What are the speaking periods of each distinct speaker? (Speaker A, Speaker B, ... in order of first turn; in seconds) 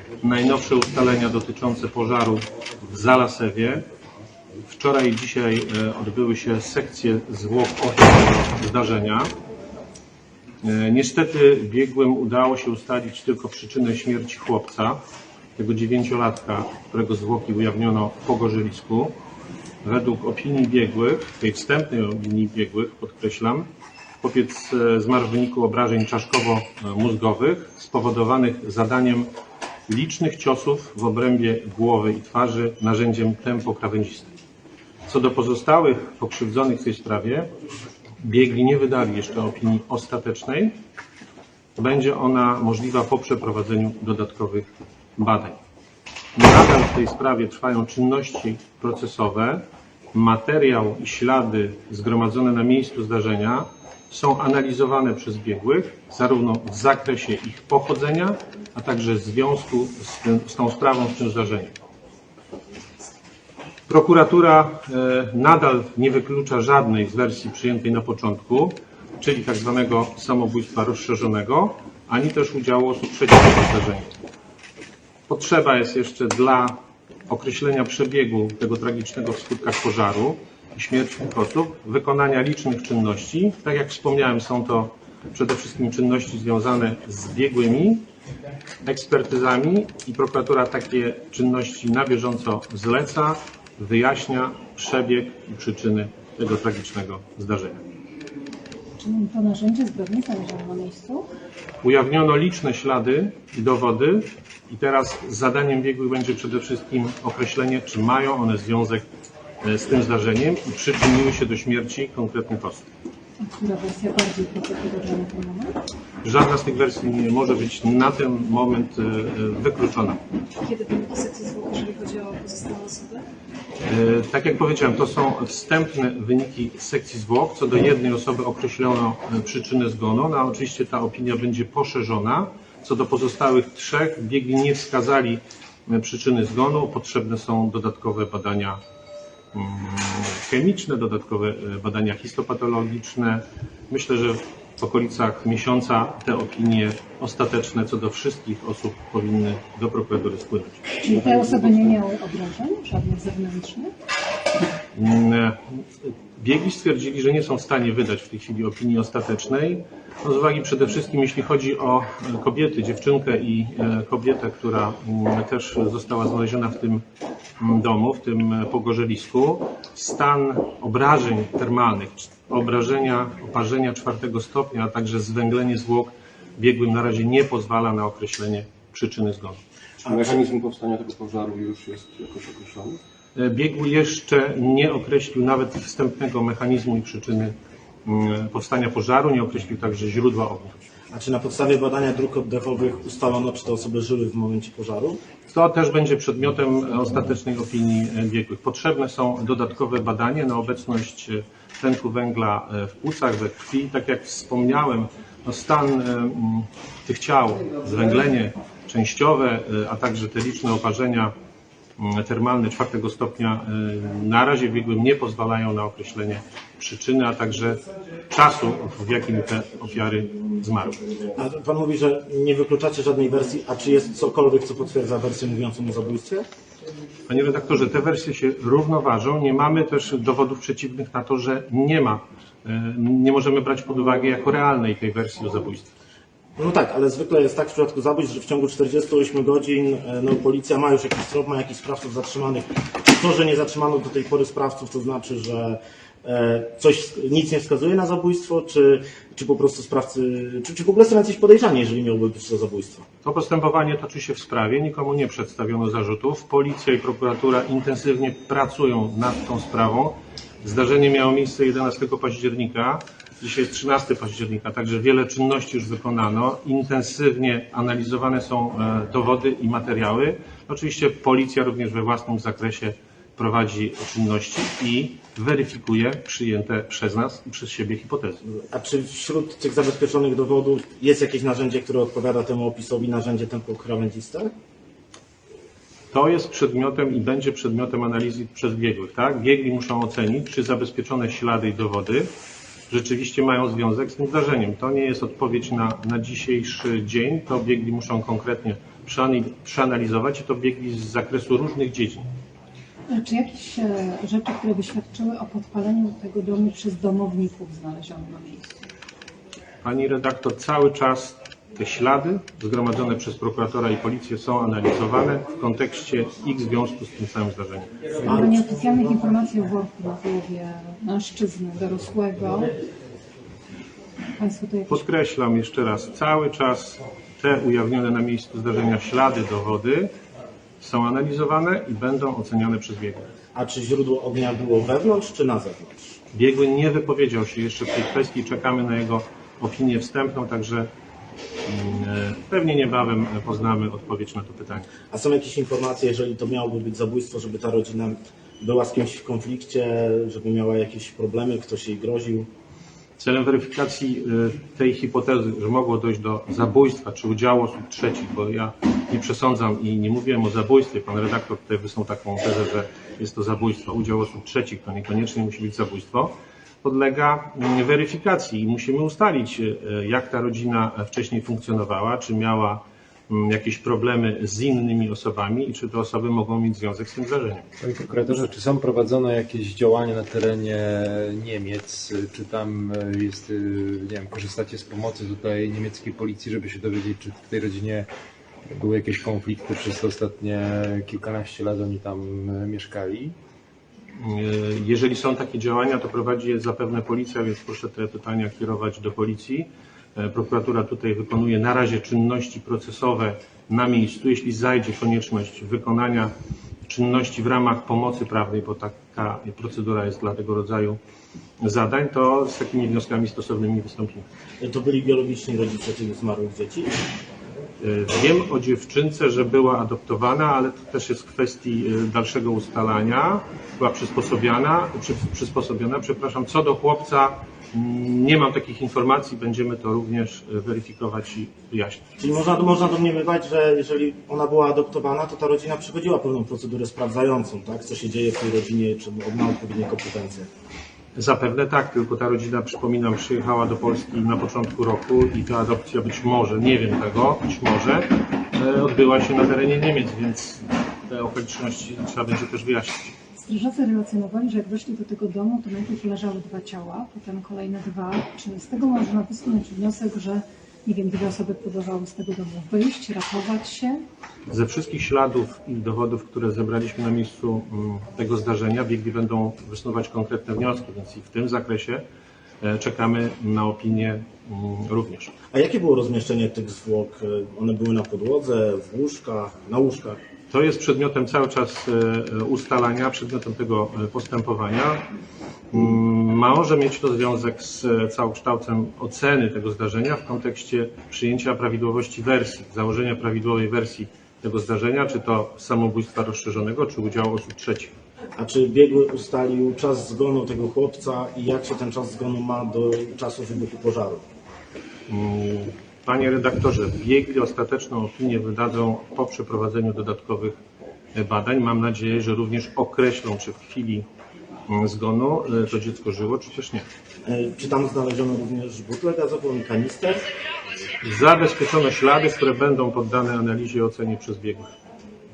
Speaker A: 0.2-3.8, 4.7-9.3, 10.6-15.0, 15.6-19.1, 19.8-23.7, 24.2-29.3, 29.9-34.3, 35.1-37.5, 38.2-40.8, 41.8-45.6, 46.4-61.7, 63.9-74.1, 75.3-88.1, 88.8-97.8, 101.8-109.0, 109.6-112.9, 116.2-120.2, 123.8-138.8, 139.5-150.8, 154.9-167.0, 167.6-179.6, 183.3-190.8, 195.5-211.3, 212.0-221.0, 227.3-235.9, 253.2-278.4, 286.1-292.3, 292.9-302.3, 309.8-317.9, 324.9-330.1, 330.8-333.2, 336.3-340.9, 341.6-344.9, 353.2-377.7, 394.2-406.3, 406.9-411.0, 411.6-414.2, 417.8-432.0, 441.2-453.1, 464.5-472.0, 472.6-475.3, 480.5-485.1, 485.7-497.9, 505.1-510.6, 511.1-514.0, 514.7-516.9, 521.0-524.7
Speaker B: 99.0-101.3, 113.4-115.8, 151.0-153.9, 303.1-308.7, 318.2-322.8, 324.4-325.0, 453.4-464.0
Speaker C: 120.7-123.2
Speaker D: 180.0-182.9
Speaker E: 191.1-195.2, 221.4-226.4, 236.6-253.0, 278.7-284.5, 318.3-318.6, 333.6-336.2, 345.1-352.5, 414.6-417.0, 432.2-440.5, 475.5-480.2, 498.4-504.2, 517.3-520.2
Speaker F: 377.8-388.1, 388.7-393.4